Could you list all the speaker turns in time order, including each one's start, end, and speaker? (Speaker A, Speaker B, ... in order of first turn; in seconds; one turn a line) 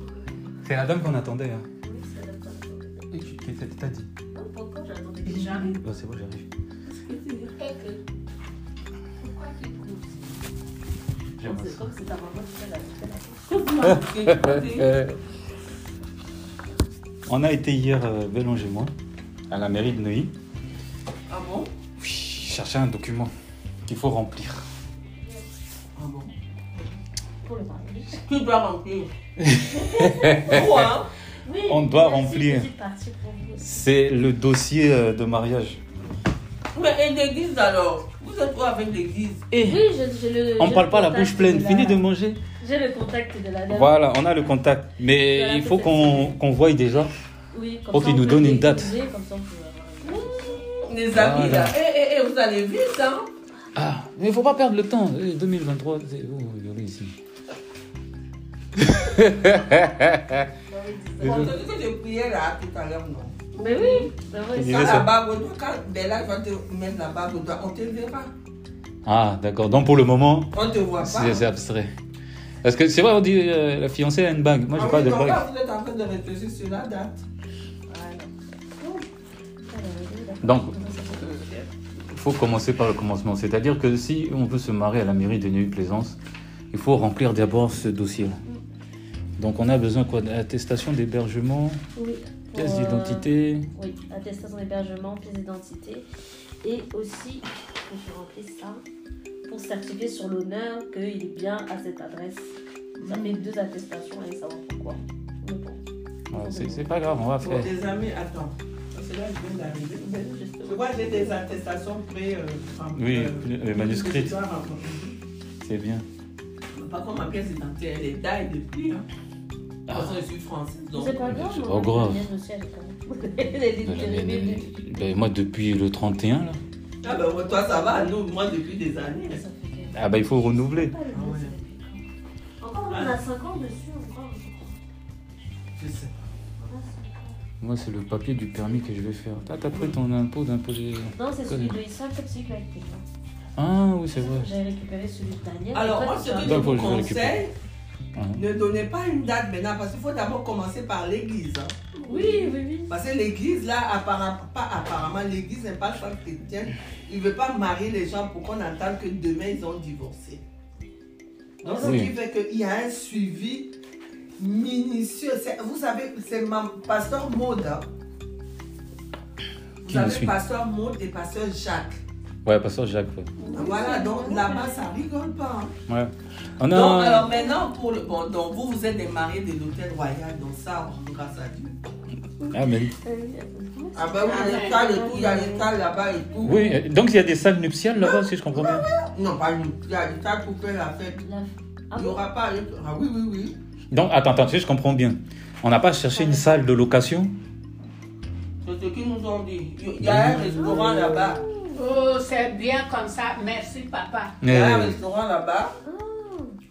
Speaker A: 0.6-1.6
Speaker B: 1.8-3.0
Speaker A: 3.1-4.1
Speaker B: 4.3-5.8
Speaker C: 5.3-5.8
Speaker A: 5.8-6.5
Speaker C: 6.9-7.5
Speaker D: 7.6-8.0
Speaker D: 9.2-10.0
Speaker B: 9.5-10.0
Speaker A: 11.4-11.8
Speaker B: 11.4-13.8
Speaker C: 13.5-14.9
Speaker A: 14.3-15.2
Speaker A: 17.3-18.9
Speaker A: 19.5-20.3
Speaker C: 21.3-21.7
Speaker A: 22.0-23.3
Speaker A: 23.9-24.6
Speaker C: 25.9-26.3
Speaker B: 27.4-28.2
Speaker C: 28.1-29.1
Speaker A: 29.4-30.8
Speaker B: 29.5-30.7
Speaker C: 30.5-31.1
Speaker B: 31.4-33.9
Speaker A: 31.7-32.7
Speaker A: 33.6-35.8
Speaker C: 36.7-39.5
Speaker A: 39.5-39.8
Speaker B: 39.6-42.0
Speaker A: 40.6-42.4
Speaker B: 42.6-44.5
Speaker A: 43.7-47.1
Speaker B: 45.1-46.4
Speaker B: 47.5-50.6
Speaker A: 47.9-48.9
Speaker C: 50.0-53.3
Speaker A: 51.1-51.7
Speaker A: 53.7-57.1
Speaker A: 58.8-60.4
Speaker B: 60.7-61.6
Speaker C: 61.2-64.1
Speaker A: 61.2-61.5
Speaker B: 63.5-65.0
Speaker A: 64.5-65.1
Speaker C: 64.7-68.3
Speaker A: 69.0-71.9
Speaker C: 70.5-71.5
Speaker A: 72.6-75.4
Speaker C: 74.7-77.2
Speaker B: 77.9-79.0
Speaker B: 79.7-81.4
Speaker A: 80.4-80.7
Speaker C: 81.2-81.6
Speaker A: 82.1-86.2
Speaker A: 86.7-88.4
Speaker A: 89.4-91.8
Speaker B: 92.0-96.1
Speaker A: 92.5-93.7
Speaker B: 96.6-98.8
Speaker B: 99.4-102.5
Speaker C: 103.0-103.5
Speaker B: 103.0-107.3
Speaker A: 106.3-107.7
Speaker C: 107.4-110.1
Speaker B: 110.0-111.4
Speaker C: 110.6-115.1
Speaker A: 113.0-114.4
Speaker A: 115.6-116.0
Speaker C: 116.7-119.0
Speaker A: 119.9-120.2
Speaker C: 119.9-121.2
Speaker B: 120.9-124.7
Speaker A: 121.3-122.3
Speaker A: 123.8-126.6
Speaker C: 127.0-129.4
Speaker B: 127.0-128.1
Speaker B: 129.0-132.0
Speaker A: 129.9-130.9
Speaker C: 131.1-131.6
Speaker B: 132.6-134.8
Speaker C: 132.9-133.2
Speaker C: 135.8-136.1
Speaker B: 136.6-137.4
Speaker A: 137.6-141.8
Speaker B: 141.1-143.0
Speaker A: 143.6-144.5
Speaker B: 144.1-146.8
Speaker C: 145.7-147.5
Speaker A: 146.4-147.4
Speaker A: 148.1-148.4
Speaker C: 148.3-160.4
Speaker B: 152.0-153.0
Speaker C: 161.6-163.7
Speaker B: 161.6-161.9
Speaker A: 161.8-162.1
Speaker C: 164.4-167.8
Speaker C: 169.8-172.0
Speaker A: 169.8-170.3
Speaker A: 172.4-173.3
Speaker B: 173.4-174.9
Speaker C: 173.5-175.7
Speaker A: 175.9-177.3
Speaker C: 176.7-181.8
Speaker B: 182.4-185.7
Speaker A: 182.5-182.9
Speaker C: 183.9-186.7
Speaker D: 184.2-184.9
Speaker A: 186.4-188.9
Speaker C: 188.8-191.2
Speaker B: 191.2-192.2
Speaker C: 191.9-193.6
Speaker A: 193.9-197.3
Speaker B: 196.0-196.7
Speaker C: 198.6-201.4
Speaker A: 200.0-200.8
Speaker B: 200.5-201.9
Speaker D: 201.7-204.4
Speaker A: 204.4-205.0
Speaker C: 204.4-205.7
Speaker B: 205.8-206.6